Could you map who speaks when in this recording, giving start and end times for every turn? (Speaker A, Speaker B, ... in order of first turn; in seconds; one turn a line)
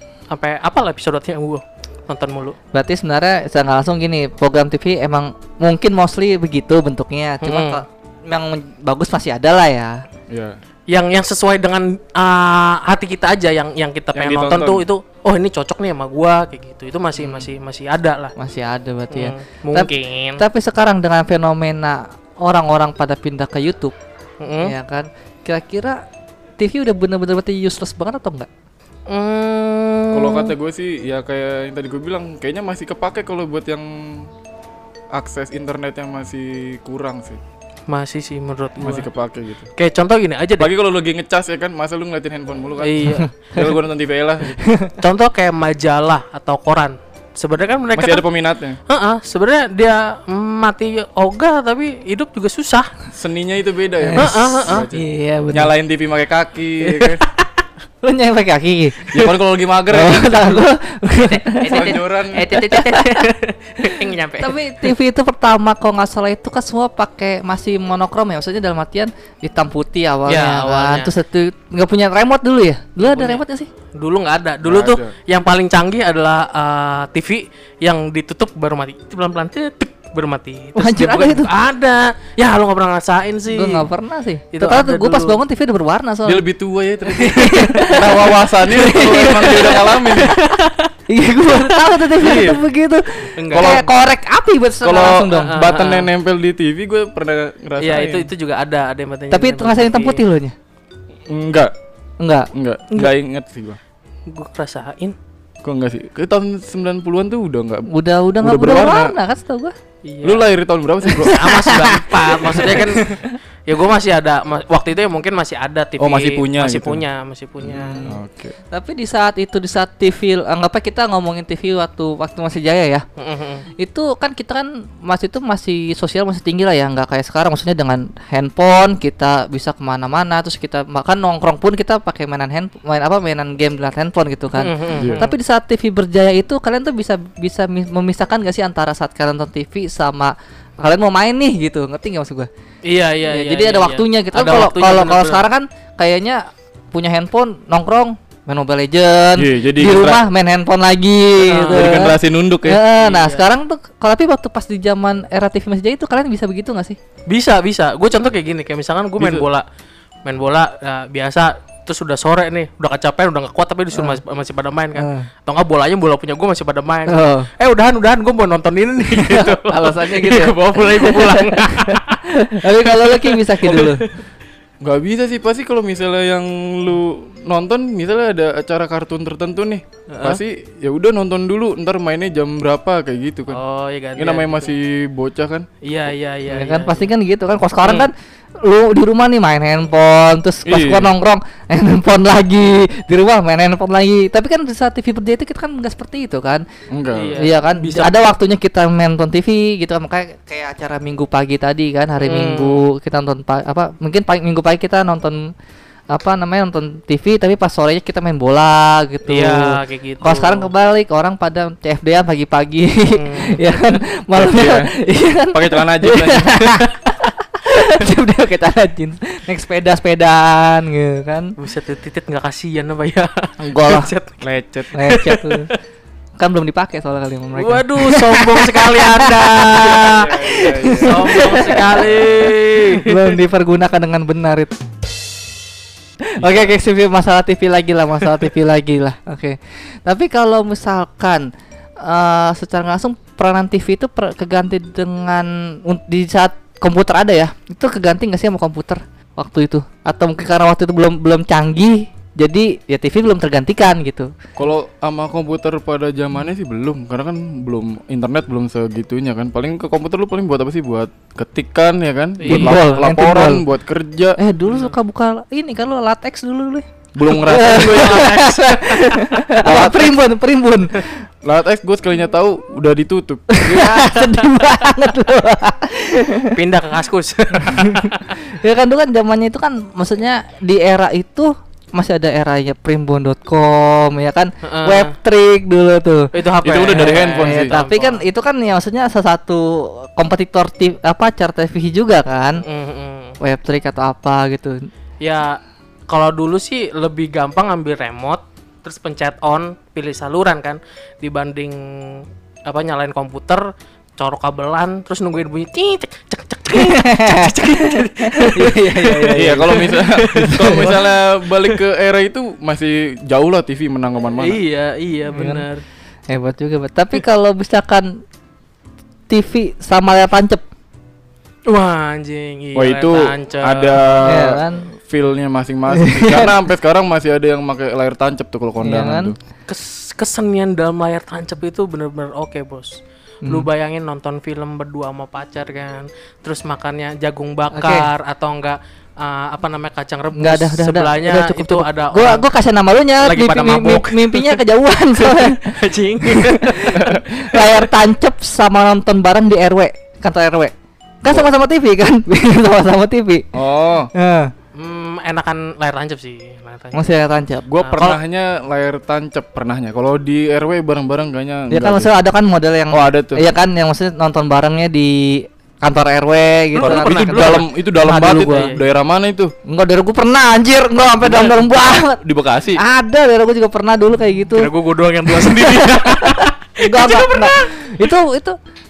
Speaker A: 0.3-2.6
Speaker B: 2.7-10.0
Speaker A: 7.4-7.8
Speaker C: 10.3-10.6
Speaker A: 10.9-18.3
Speaker C: 14.2-14.8
Speaker B: 18.4-23.9
Speaker A: 19.1-20.4
Speaker A: 24.4-24.8
Speaker B: 24.6-26.0
Speaker B: 26.6-28.5
Speaker A: 29.1-30.5
Speaker C: 30.1-34.3
Speaker C: 35.1-37.4
Speaker A: 37.9-39.1
Speaker C: 38.8-39.7
Speaker A: 39.8-40.7
Speaker C: 40.6-44.6
Speaker A: 42.8-43.3
Speaker B: 43.2-43.7
Speaker B: 44.6-45.0
Speaker A: 45.0-48.2
Speaker C: 48.0-48.8
Speaker A: 48.9-52.9
Speaker C: 53.1-57.2
Speaker B: 54.0-55.7
Speaker A: 54.2-54.9
Speaker A: 56.9-57.4
Speaker B: 58.0-59.3
Speaker C: 59.1-60.6
Speaker B: 59.9-63.3
Speaker A: 61.2-64.9
Speaker C: 61.7-62.5
Speaker B: 63.8-73.7
Speaker A: 70.3-71.1
Speaker A: 73.0-73.4
Speaker A: 74.0-83.9
Speaker C: 74.6-75.1
Speaker B: 80.8-81.5
Speaker B: 83.5-86.5
Speaker A: 84.5-85.4
Speaker C: 86.2-90.4
Speaker B: 87.1-90.2
Speaker A: 87.6-88.0
Speaker A: 89.2-90.9
Speaker B: 91.1-95.6
Speaker A: 91.6-92.0
Speaker C: 92.2-92.6
Speaker A: 93.4-93.8
Speaker C: 93.5-93.9
Speaker C: 94.8-98.3
Speaker A: 95.3-96.1
Speaker A: 97.8-100.2
Speaker B: 99.3-100.5
Speaker C: 101.3-101.7
Speaker B: 102.2-102.5
Speaker C: 102.5-103.8
Speaker A: 104.3-105.2
Speaker C: 105.6-109.2
Speaker B: 107.9-109.7
Speaker A: 110.0-110.5
Speaker C: 110.2-111.9
Speaker A: 111.1-113.1
Speaker B: 111.2-113.4
Speaker A: 113.7-118.1
Speaker C: 116.0-117.0
Speaker C: 117.6-118.5
Speaker B: 117.7-118.2
Speaker B: 118.7-123.0
Speaker A: 123.2-123.7
Speaker B: 123.8-142.5
Speaker A: 134.6-135.3
Speaker C: 135.0-135.2
Speaker A: 142.8-145.4
Speaker B: 143.3-157.0
Speaker C: 149.4-150.2
Speaker A: 151.4-152.0
Speaker C: 151.7-152.8
Speaker A: 153.0-153.4
Speaker A: 157.3-159.7
Speaker C: 159.2-159.4
Speaker A: 160.2-174.1
Speaker B: 163.9-164.2
Speaker B: 164.9-165.3
Speaker B: 167.1-167.5
Speaker B: 169.1-174.1
Speaker C: 174.8-183.6
Speaker A: 180.1-180.4
Speaker A: 183.5-184.7
Speaker C: 184.2-185.7
Speaker A: 185.8-187.1
Speaker B: 186.5-196.7
Speaker A: 187.8-188.1
Speaker C: 190.7-191.1
Speaker C: 196.9-197.4
Speaker A: 197.1-198.3
Speaker B: 197.4-205.5
Speaker A: 202.2-202.9
Speaker B: 206.1-221.5
Speaker A: 209.3-210.7
Speaker A: 213.2-214.0
Speaker C: 214.3-214.9
Speaker C: 215.5-216.7
Speaker A: 221.6-224.4
Speaker B: 223.6-224.1
Speaker C: 224.4-225.0
Speaker B: 224.9-225.7
Speaker A: 225.0-225.8
Speaker B: 226.4-232.1
Speaker A: 227.6-233.3
Speaker C: 229.8-232.5
Speaker B: 232.9-234.8
Speaker B: 236.2-241.5
Speaker C: 236.4-236.7
Speaker B: 242.0-254.3
Speaker C: 254.6-264.4
Speaker A: 262.4-263.0
Speaker B: 262.4-263.6
Speaker B: 264.4-271.2
Speaker C: 267.1-268.3
Speaker A: 267.3-269.8
Speaker C: 269.6-270.1
Speaker C: 271.4-274.1
Speaker B: 273.5-276.6
Speaker A: 273.7-274.3
Speaker A: 276.5-278.4
Speaker B: 277.6-286.3
Speaker A: 284.6-285.1
Speaker A: 286.3-288.2
Speaker C: 286.6-287.7
Speaker B: 286.9-292.6
Speaker A: 292.6-293.4
Speaker B: 293.4-294.9
Speaker A: 295.2-303.7
Speaker A: 304.2-311.1
Speaker B: 306.7-311.0
Speaker C: 309.3-314.6
Speaker A: 314.4-315.8
Speaker B: 315.3-315.7
Speaker B: 316.3-318.2
Speaker B: 319.3-320.6
Speaker A: 321.7-324.5
Speaker C: 322.8-329.4
Speaker B: 324.2-324.9
Speaker B: 325.9-326.6
Speaker B: 328.8-329.4
Speaker A: 329.7-342.4
Speaker B: 337.7-338.1
Speaker B: 340.4-353.5
Speaker A: 343.2-344.6
Speaker A: 345.2-347.9
Speaker C: 353.5-354.1
Speaker B: 354.1-354.5
Speaker A: 354.8-357.1
Speaker B: 356.9-358.2
Speaker C: 357.7-362.1
Speaker A: 357.8-358.2
Speaker B: 361.7-368.7
Speaker C: 362.9-363.5
Speaker A: 366.8-367.7
Speaker C: 366.8-369.5
Speaker A: 368.4-368.9
Speaker B: 369.7-372.2
Speaker C: 371.2-372.8
Speaker B: 372.8-374.7
Speaker A: 374.5-378.0
Speaker B: 375.2-378.6